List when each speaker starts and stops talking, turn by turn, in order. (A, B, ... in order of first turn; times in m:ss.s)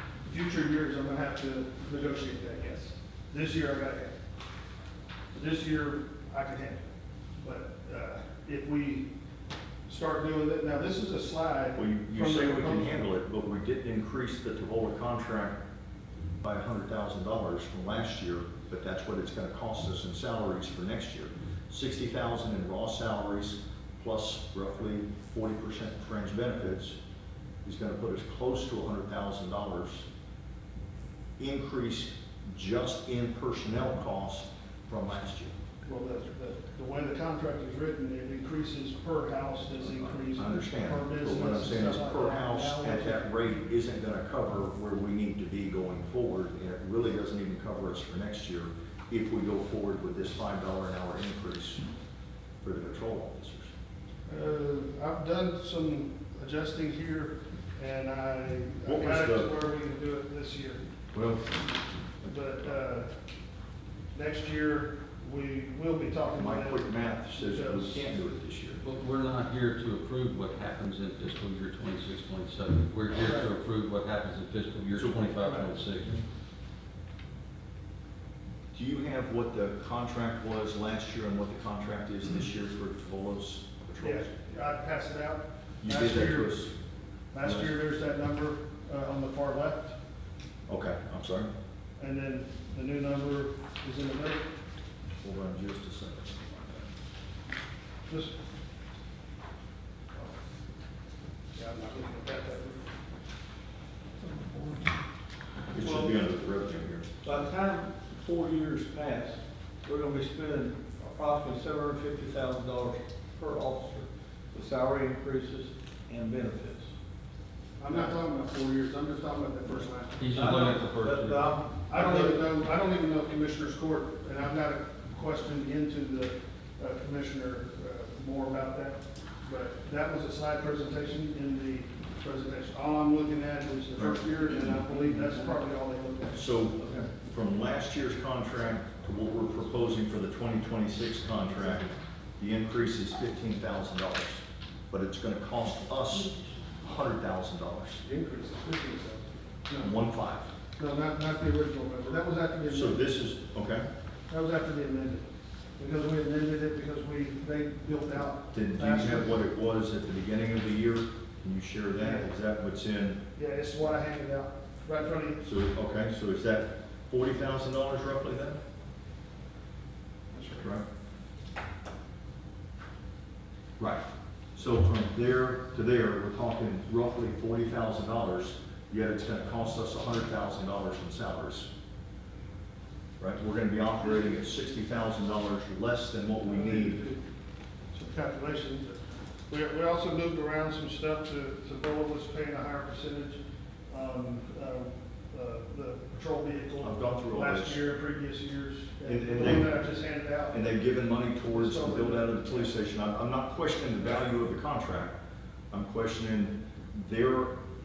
0:00.2-0:04.1 A
0:05.3-0:06.8 A
0:07.4-0:09.1 A
0:09.9-0:13.0 A
0:11.7-0:15.6 B
0:16.4-0:27.0 B
0:27.6-0:30.1 B
0:31.4-0:35.5 B
0:35.8-0:43.2 A
0:40.3-0:51.8 B
0:52.6-0:53.7 B
0:54.3-1:00.8 A
0:58.8-0:59.5 B
1:01.1-1:01.4 B
1:02.2-1:03.1 A
1:04.1-1:08.0 A
1:06.3-1:08.8 B
1:08.8-1:16.2 C
1:13.1-1:13.5 A
1:14.9-1:15.4 B
1:15.4-1:15.7 A
1:18.7-1:24.4 B
1:24.0-1:26.6 A
1:25.8-1:26.7 B
1:27.3-1:29.9 A
1:27.4-1:27.8 B
1:30.7-1:31.5 B
1:32.0-1:34.5 A
1:35.2-1:36.8 B
1:38.1-1:38.3 A
1:41.5-1:42.9 A
1:44.2-1:44.8 D
1:45.7-1:47.1 B
1:47.2-1:56.9 D
1:57.8-2:00.5 A
2:00.2-2:01.5 C
2:00.3-2:02.4 D
2:01.9-2:16.6 A
2:14.0-2:14.2 B
2:14.9-2:15.5 D
2:16.3-2:28.0 B
2:16.8-2:17.1 D
2:28.0-2:29.9 A
2:29.8-2:30.5 B
2:30.8-2:33.1 A
2:32.7-2:33.8 B
2:34.3-2:39.4 A
2:38.5-2:43.2 B
2:42.0-2:42.3 A
2:43.4-2:45.4 A
2:45.4-2:48.6 B
2:50.3-2:50.6 A
2:50.5-2:50.8 B
2:53.8-2:54.0 B
2:54.5-3:01.7 B
3:03.2-3:07.0 B
3:06.4-3:07.2 A
3:07.9-3:20.6 A
3:16.8-3:17.8 B
3:19.1-3:19.7 B
3:20.5-3:25.2 B
3:21.5-3:22.7 A
3:25.7-3:27.5 B